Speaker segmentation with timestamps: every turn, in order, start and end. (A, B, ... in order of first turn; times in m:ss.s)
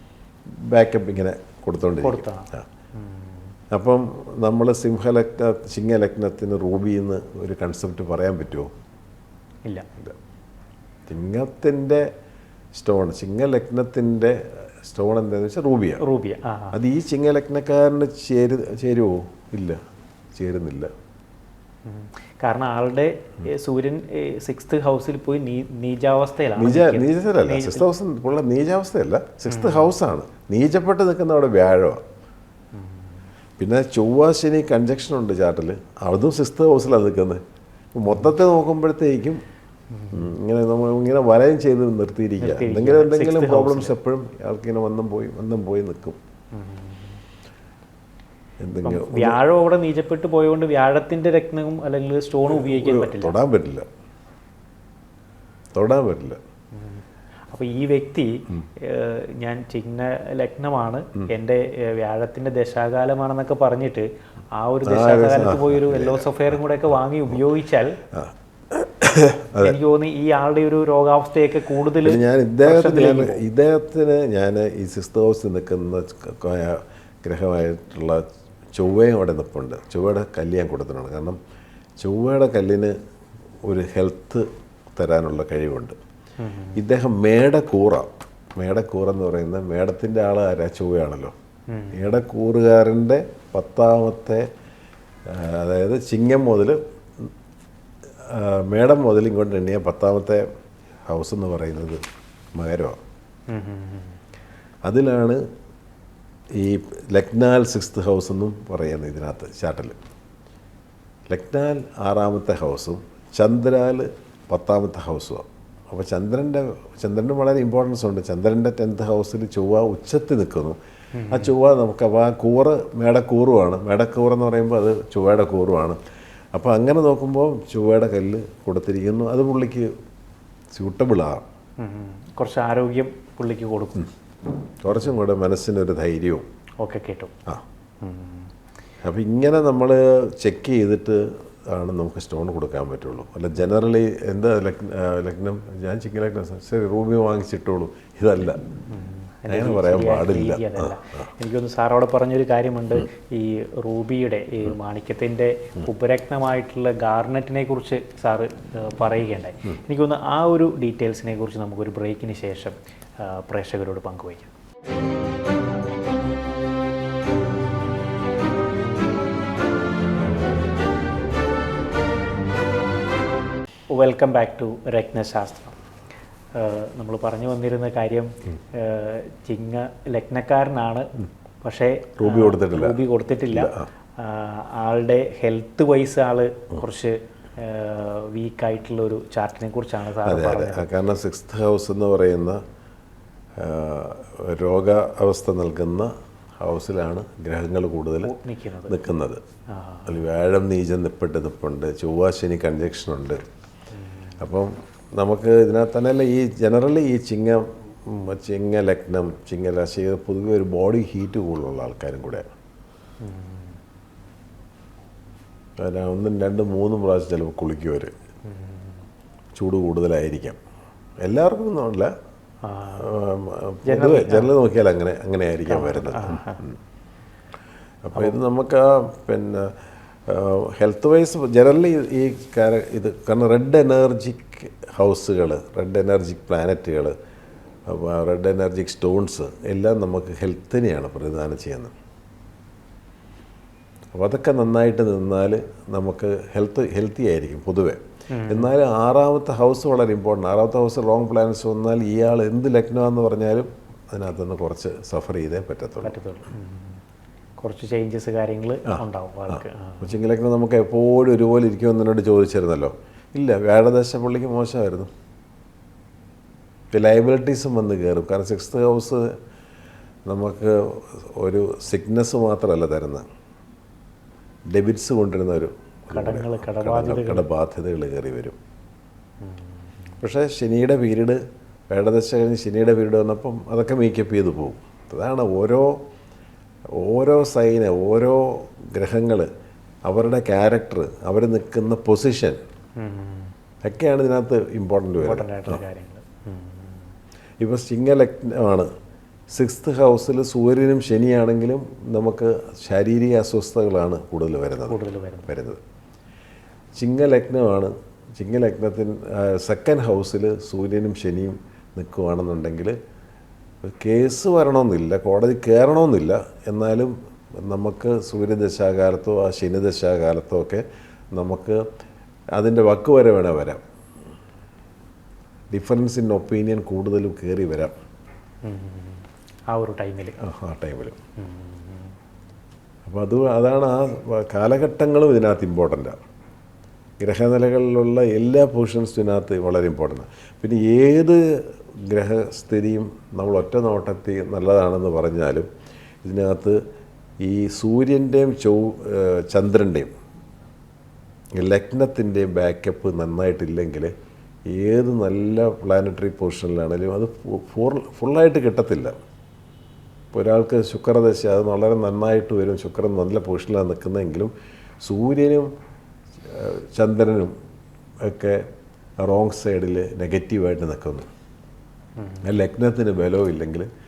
0:00.5-0:02.6 A
0:02.0-0:03.5 B
0:03.7-0:08.7 A
0:11.1-0:12.1 A
0:12.8-0:16.0 A
0:16.0-0:16.8 B
0:16.7-0:19.8 A
0:20.3-0:20.9 A
0:21.8-0:27.9 B
0:26.6-0:32.0 A
0:29.5-0:29.9 B
0:32.7-0:33.3 B
0:33.6-0:37.4 A
0:37.9-0:39.4 A
0:39.9-0:40.3 B
0:40.1-0:46.2 A
0:42.4-0:43.9 B
0:46.5-0:47.2 B
0:48.6-0:49.4 A
0:48.8-0:53.4 B
0:52.5-0:53.9 A
0:55.7-0:56.4 A
0:56.7-1:08.0 B
1:04.8-1:06.6 A
1:08.1-1:09.8 A
1:09.6-1:13.4 B
1:12.0-1:21.4 A
1:22.0-1:22.9 A
1:23.6-1:26.0 A
1:26.4-1:26.8 B
1:26.8-1:31.3 A
1:31.7-1:32.2 B
1:31.9-1:34.5 A
1:35.3-1:37.3 A
1:38.2-1:40.4 A
1:41.0-1:42.0 A
1:42.6-1:43.0 A
1:43.5-1:44.2 B
1:44.9-1:45.4 A
1:46.5-1:50.0 A
1:51.3-2:00.8 A
2:01.1-2:01.5 B
2:01.3-2:06.0 A
2:06.5-2:09.9 A
2:10.7-2:11.4 A
2:11.8-2:14.1 B
2:14.8-2:16.4 A
2:16.8-2:17.3 B
2:18.0-2:18.5 B
2:19.0-2:28.6 A
2:28.9-2:44.5 B
2:29.5-2:31.3 A
2:53.9-2:55.8 B
2:56.5-3:10.9 B
3:02.2-3:03.0 A
3:03.5-3:03.9 A
3:10.2-3:12.6 A
3:13.6-3:18.3 A
3:18.2-3:19.0 B
3:18.9-3:19.4 A
3:19.7-3:20.2 B
3:20.0-3:23.4 A
3:23.9-3:24.4 B
3:24.4-3:32.5 A
3:33.2-3:33.8 B
3:35.8-3:38.1 A
3:38.4-3:39.0 B
3:39.6-3:40.6 A
3:41.2-3:42.1 A
3:42.6-3:43.0 B
3:43.0-3:46.8 A
3:43.8-3:44.5 B
3:45.7-3:46.6 B
3:48.0-3:57.1 A
3:57.8-4:01.9 A
4:04.1-4:16.2 A
4:08.3-4:08.7 B
4:16.0-4:17.0 B
4:17.6-4:20.2 B
4:18.9-4:25.1 A
4:26.9-4:29.4 A
4:30.3-4:33.2 A
4:34.7-4:38.6 A
4:36.1-4:37.4 B
4:39.4-4:39.9 B
4:40.2-4:46.0 A
4:47.0-4:49.5 A
4:50.1-4:52.6 A
4:53.0-4:53.5 B
4:53.8-4:55.8 A
4:55.2-4:57.1 B
4:57.6-4:58.9 A
4:59.5-5:05.8 A
5:04.9-5:05.5 B
5:07.0-5:13.0 A
5:13.8-5:20.8 A
5:21.3-5:21.8 A
5:22.5-5:23.8 A
5:25.7-5:27.9 A
5:28.6-5:30.3 B
5:30.4-5:31.2 A
5:31.4-5:32.1 B
5:33.0-5:36.2 A
5:37.2-5:45.7 A
5:46.2-5:46.8 A
5:47.4-5:50.1 A
5:51.6-5:54.1 A
5:54.6-5:59.1 A
6:00.3-6:04.5 A
6:05.0-6:05.7 A
6:06.4-6:07.5 A
6:08.2-6:08.7 A
6:09.2-6:11.3 A
6:12.2-6:12.5 B
6:12.4-6:13.9 A